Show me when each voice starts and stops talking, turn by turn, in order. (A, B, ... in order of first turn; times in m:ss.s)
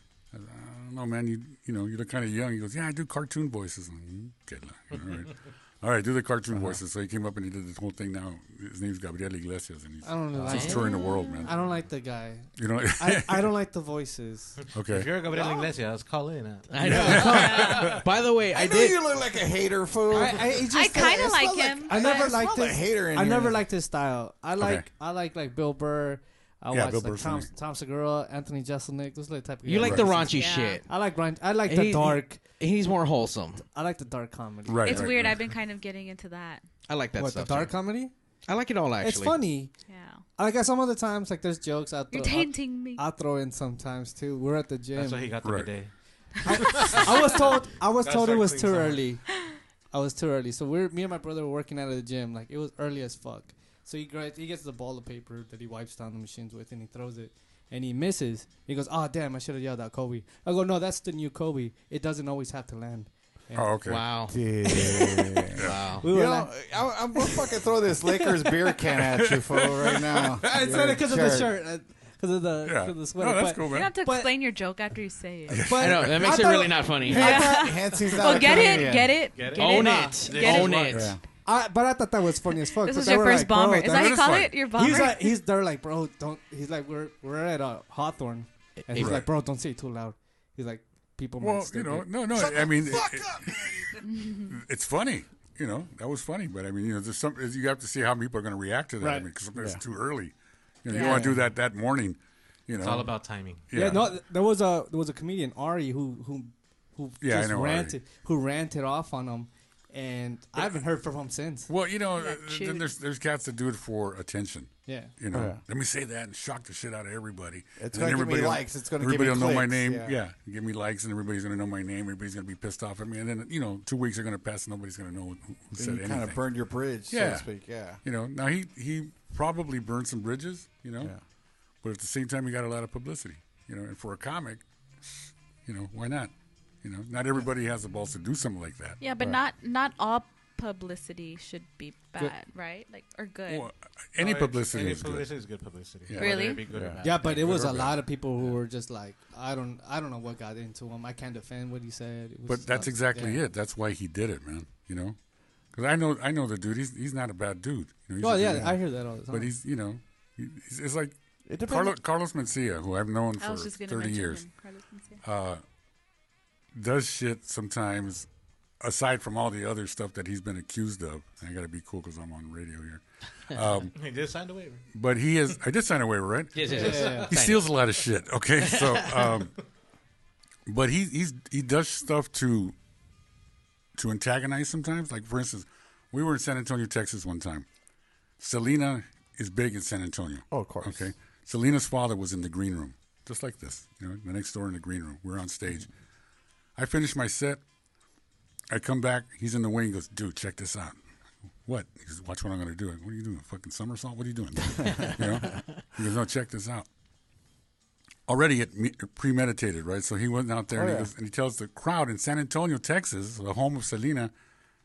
0:00.3-0:11.5 A
0:10.0-0:14.6 B
0:10.4-0:10.7 C
0:10.7-0:11.5 D
0:11.5-0:11.8 C
0:12.5-0:13.5 A
0:14.6-0:17.9 C
0:14.7-0:15.2 A
0:16.7-0:19.0 E
0:16.8-0:18.0 A
0:16.8-0:17.3 B
0:17.3-0:17.7 D
0:18.5-0:23.6 F
0:20.1-0:32.6 B
0:20.7-0:22.7 D
0:24.6-0:24.9 A
0:26.7-0:27.5 A
0:29.6-0:33.6 E
0:29.8-0:30.1 A
0:30.3-0:30.8 D
0:33.6-0:35.1 B
0:34.7-0:35.5 A
0:34.8-0:36.7 D
0:36.9-0:39.6 E
0:37.2-0:45.6 B
0:39.8-0:40.2 D
0:42.1-0:43.0 D
0:44.9-0:49.2 C
0:45.4-0:46.3 A
0:46.4-1:04.5 B
1:03.5-1:04.2 A
1:03.9-1:04.4 E
1:04.3-1:11.5 F
1:05.7-1:06.0 E
1:06.0-1:07.4 B
1:09.2-1:11.0 A
1:10.4-1:14.4 B
1:12.6-1:14.0 A
1:13.7-1:15.6 D
1:15.5-1:16.4 A
1:15.6-1:17.0 B
1:15.8-1:17.5 E
1:16.7-1:19.0 F
1:17.1-1:20.8 D
1:18.2-1:32.4 B
1:19.3-1:21.2 C
1:19.4-1:21.1 E
1:20.9-1:21.2 A
1:22.7-1:25.4 D
1:23.9-1:24.6 A
1:28.8-1:29.2 E
1:28.9-1:29.3 A
1:31.4-1:33.7 A
1:34.0-1:34.5 D
1:34.5-1:44.2 A
1:39.0-1:39.3 B
1:39.6-1:39.8 F
1:40.9-1:41.3 D
1:41.0-1:41.5 F
1:42.8-1:43.6 C
1:43.7-1:51.7 B
1:47.2-1:48.0 A
1:50.6-1:50.8 A
1:51.7-2:06.4 A
1:52.1-1:53.0 D
1:54.9-1:55.2 B
1:55.3-1:55.6 F
1:57.8-2:00.2 F
2:05.8-2:08.0 F
2:07.1-2:19.0 A
2:19.0-2:23.7 D
2:23.5-2:25.4 A
2:24.2-2:28.6 C
2:26.0-2:28.1 A
2:26.2-2:26.7 D
2:26.7-2:27.0 F
2:27.0-2:33.4 B
2:32.5-2:45.6 A
2:38.2-2:39.5 B
2:41.5-2:42.0 F
2:43.4-2:45.2 D
2:46.7-2:54.0 A
2:53.9-2:54.9 C
2:54.9-2:59.5 A
2:56.5-2:58.1 E
2:56.6-2:57.3 C
2:56.8-2:57.3 B
2:58.6-2:59.3 E
3:00.7-3:02.8 A
3:04.0-3:07.7 A
3:08.4-3:15.9 A
3:10.5-3:11.1 F
3:16.8-3:17.6 A
3:18.7-3:21.0 A
3:21.6-3:26.9 A
3:28.3-3:34.3 A
3:30.7-3:31.1 F